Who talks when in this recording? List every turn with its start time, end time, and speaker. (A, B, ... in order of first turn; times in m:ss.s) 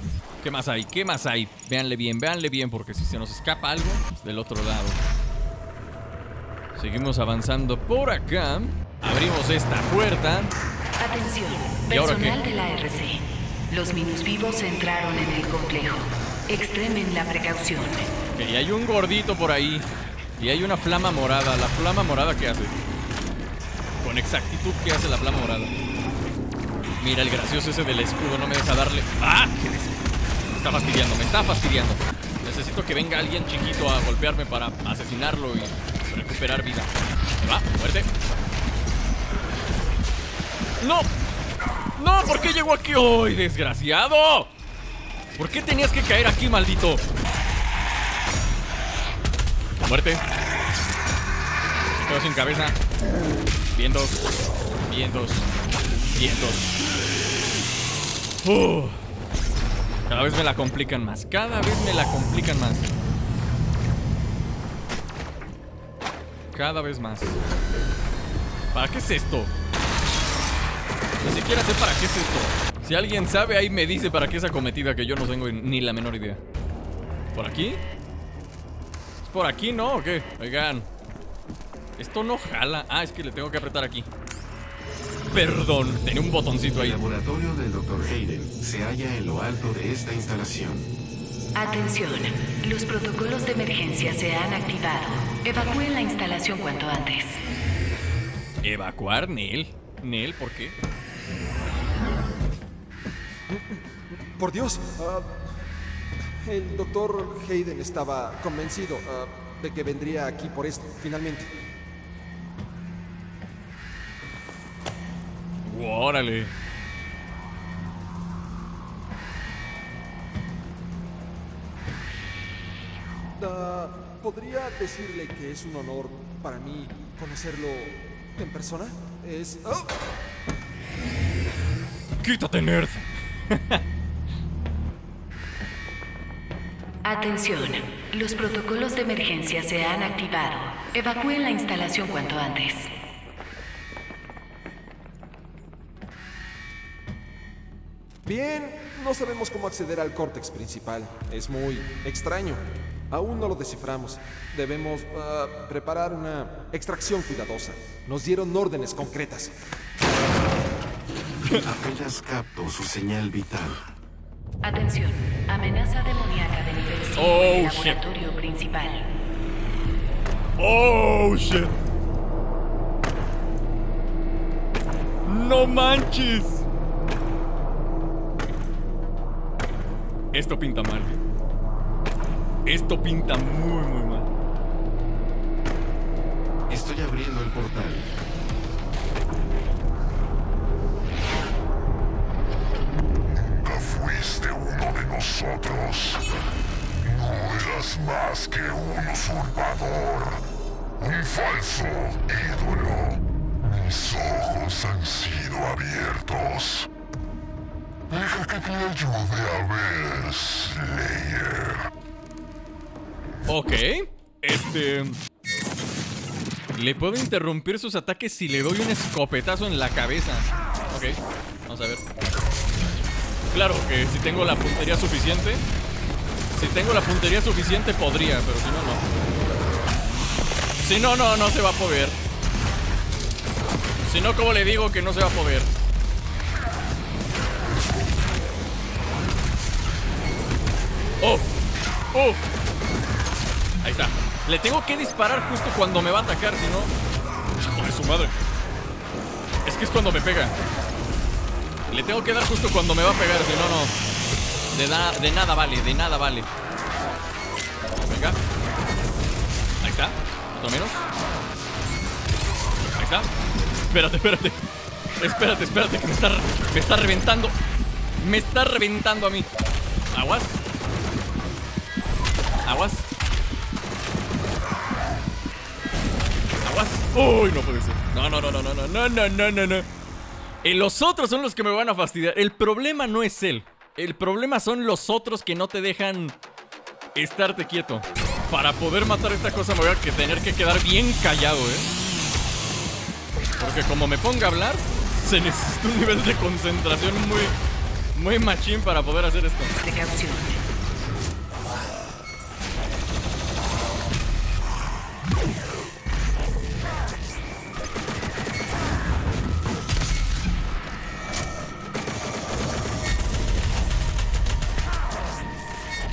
0:00.4-0:05.0 A
0:06.8-0:10.5 A
0:11.0-0:18.1 B
0:11.9-0:12.4 A
0:18.3-0:22.7 A
0:24.0-0:25.7 A
0:27.0-0:36.9 A
0:37.4-0:38.1 A
0:40.8-0:41.1 A
0:42.0-0:44.5 A
0:45.4-0:47.0 A
0:49.8-0:50.2 A
0:52.0-0:52.8 A
0:53.7-0:54.3 A
0:54.9-0:55.5 A
0:56.1-0:56.8 A
0:58.4-0:59.0 A
1:00.1-1:02.9 A
1:06.5-1:07.4 A
1:08.7-1:09.5 A
1:11.2-1:16.4 A
1:17.3-1:17.8 A
1:19.2-1:20.9 A
1:22.0-1:24.1 A
1:25.3-1:27.0 A
1:26.7-1:30.9 C
1:31.5-1:37.4 B
1:38.6-1:40.8 A
1:43.5-1:43.8 D
1:44.4-1:45.5 D
1:46.4-1:51.5 D
1:55.6-1:56.5 A
2:03.4-2:10.0 D
2:12.2-2:13.8 A
2:17.0-2:22.9 B
2:28.2-2:39.5 D
2:41.6-2:43.8 C
2:44.6-2:49.2 B
2:47.2-2:48.0 A
2:50.6-2:51.7 A
2:55.2-2:56.6 A
3:00.3-3:01.2 A
3:02.6-3:04.3 A
3:06.7-3:08.1 C
3:13.2-3:16.2 E
3:17.0-3:20.4 E
3:21.0-3:26.9 E
3:28.1-3:31.8 E
3:33.5-3:35.2 A
3:36.7-3:42.0 A
3:43.5-3:45.6 A
3:46.5-3:49.0 A
3:50.8-3:52.2 A
3:54.0-3:55.7 A
4:01.2-4:01.4 A
4:02.1-4:02.4 A
4:03.8-4:06.9 A
4:07.6-4:08.3 A
4:09.6-4:10.5 A
4:11.9-4:13.9 A
4:14.7-4:16.5 A
4:18.0-4:18.4 A
4:19.8-4:21.0 A
4:23.0-4:23.3 A
4:23.9-4:24.6 A
4:25.2-4:27.5 A
4:28.2-4:29.5 A
4:30.1-4:30.6 A
4:32.6-4:33.0 A
4:36.6-4:39.9 A
4:40.6-4:46.4 A
4:47.1-4:51.9 A
4:53.6-4:57.5 A
4:58.1-4:59.7 A
4:59.8-5:00.6 B